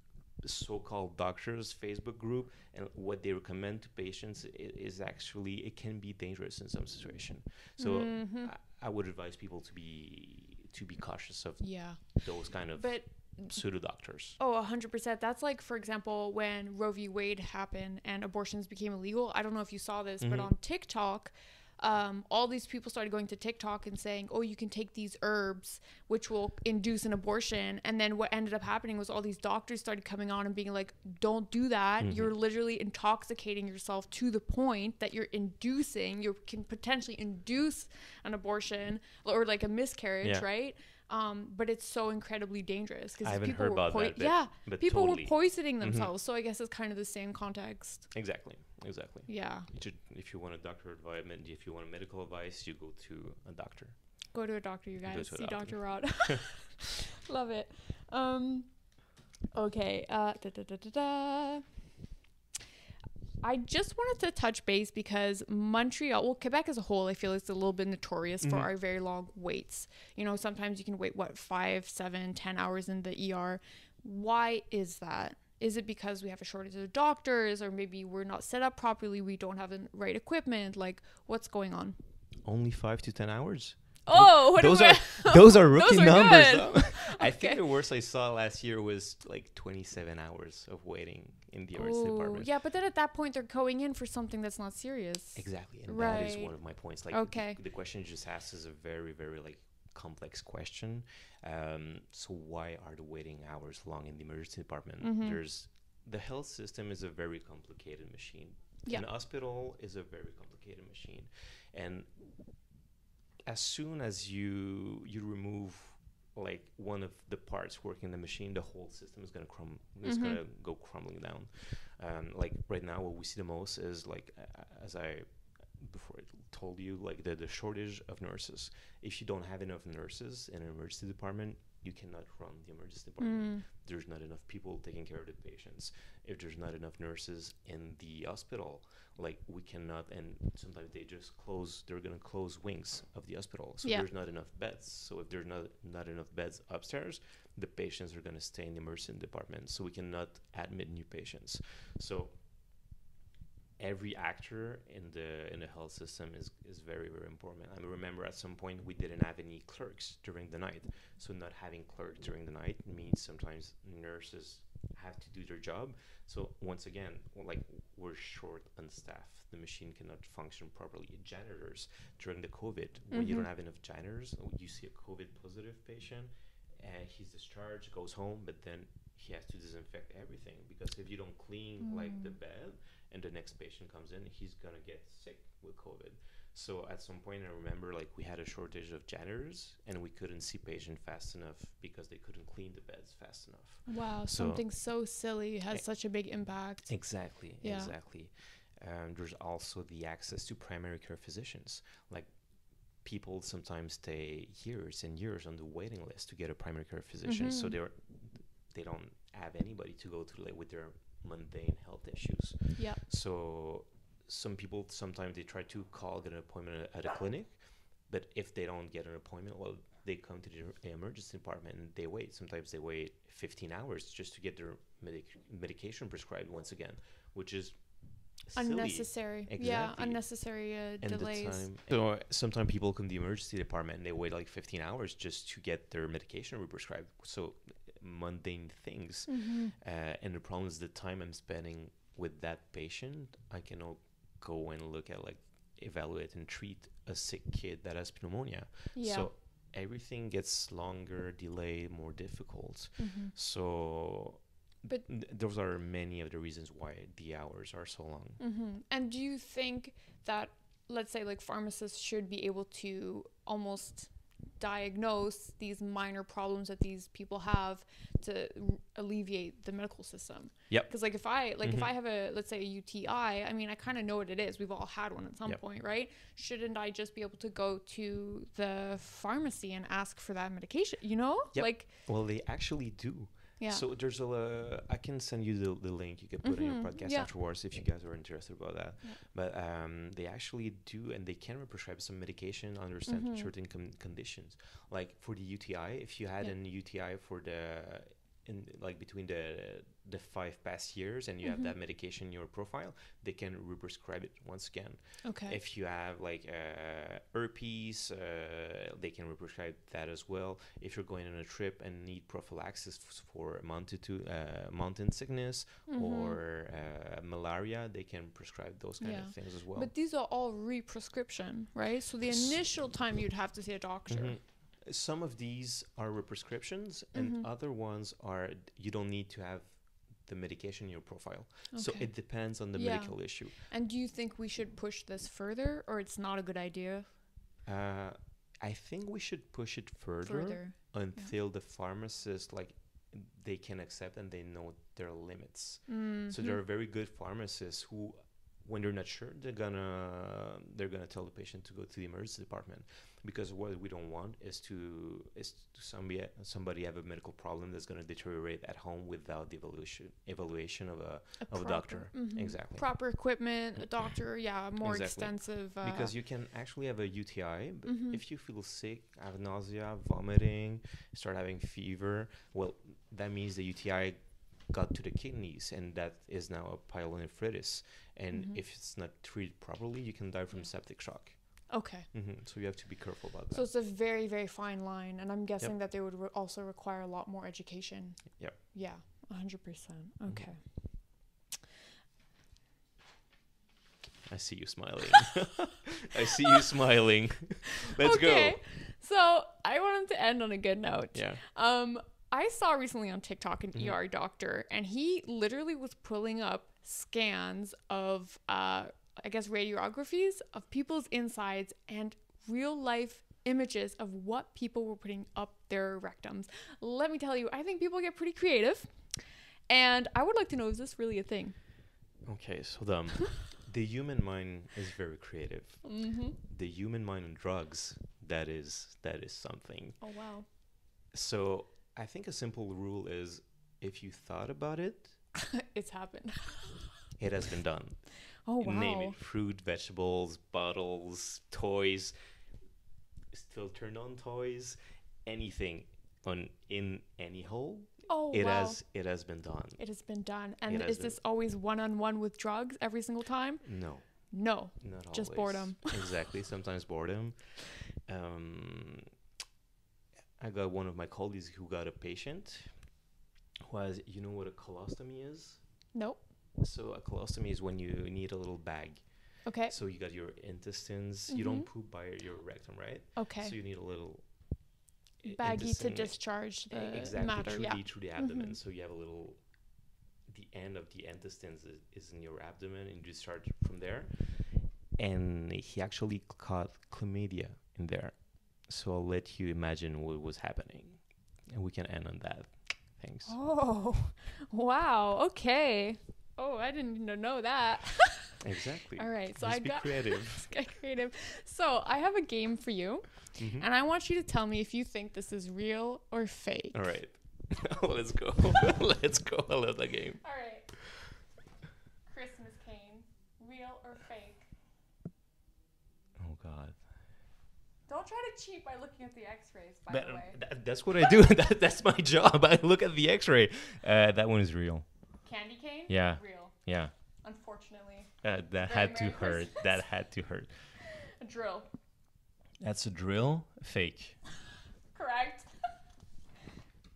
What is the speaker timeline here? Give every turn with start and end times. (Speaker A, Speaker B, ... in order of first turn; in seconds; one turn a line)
Speaker A: 0.4-14.4
Speaker B: 7.8-8.5
Speaker B: 11.6-13.6
Speaker B: 14.4-48.1
Speaker A: 20.2-20.5
Speaker A: 32.0-32.3
Speaker A: 40.2-40.5
Speaker A: 43.2-46.1
Speaker A: 48.1-54.0
Speaker B: 49.3-49.7
Speaker B: 54.3-58.9
Speaker A: 55.0-56.4
Speaker B: 59.5-61.7
Speaker B: 63.4-82.0
Speaker A: 68.4-68.7
Speaker A: 82.4-92.5
Speaker B: 84.0-87.6
Speaker B: 91.8-97.6
Speaker A: 95.3-112.1
Speaker B: 105.0-105.4
Speaker A: 113.5-152.3
Speaker B: 120.0-120.4
Speaker B: 133.2-133.7
Speaker A: 153.8-194.7
Speaker B: 173.1-173.5
Speaker B: 181.8-182.3
Speaker B: 193.8-197.9
Speaker A: 196.8-202.4
Speaker A: 202.9-258.4
Speaker B: 207.2-207.8
Speaker B: 212.8-213.0
Speaker B: 228.5-231.7
Speaker B: 239.3-239.7
Speaker B: 248.9-249.3
Speaker B: 253.0-253.3
Speaker B: 258.4-281.9
Speaker A: 270.7-270.9
Speaker A: 271.6-271.9
Speaker A: 281.5-319.9
Speaker B: 283.6-283.8
Speaker B: 286.4-287.3
Speaker B: 293.1-293.5
Speaker B: 301.4-301.7
Speaker B: 305.2-305.6
Speaker B: 315.9-316.4
Speaker B: 319.0-324.4
Speaker A: 322.2-322.8
Speaker A: 324.1-333.5
Speaker B: 327.1-327.5
Speaker B: 331.7-337.1
Speaker A: 337.6-362.9
Speaker B: 340.2-341.3
Speaker B: 345.9-346.6
Speaker B: 361.4-366.1
Speaker A: 363.9-364.2
Speaker A: 364.8-383.7
Speaker B: 367.9-368.2
Speaker B: 378.3-378.6
Speaker B: 381.7-382.1
Speaker B: 383.5-391.2
Speaker A: 390.3-390.6
Speaker A: 394.2-398.6
Speaker B: 397.8-421.5
Speaker A: 401.1-401.4
Speaker A: 422.2-430.0
Speaker B: 425.8-426.4
Speaker B: 430.0-430.5
Speaker A: 431.1-435.1
Speaker B: 435.3-437.0
Speaker A: 437.2-442.1
Speaker B: 438.4-439.2
Speaker A: 443.3-449.8
Speaker B: 448.1-448.8
Speaker B: 449.8-456.1
Speaker A: 450.6-451.2
Speaker A: 453.6-459.1
Speaker A: 460.4-462.9
Speaker A: 463.6-465.6
Speaker B: 465.9-466.3
Speaker A: 466.6-474.7
Speaker B: 469.4-469.7
Speaker B: 471.3-471.7
Speaker B: 473.1-473.5
Speaker A: 475.2-479.4
Speaker B: 475.2-478.5
Speaker A: 480.2-493.3
Speaker B: 493.2-506.9
Speaker A: 498.4-500.5
Speaker A: 503.4-503.7
Speaker A: 506.7-511.1
Speaker B: 510.2-510.7
Speaker B: 512.1-514.5
Speaker A: 516.2-516.9
Speaker B: 517.9-520.4
Speaker A: 519.9-524.9
Speaker B: 525.2-526.5
Speaker A: 525.9-526.9
Speaker B: 527.2-529.8
Speaker A: 528.2-530.7
Speaker B: 530.8-531.7
Speaker A: 532.6-534.2
Speaker B: 534.9-535.5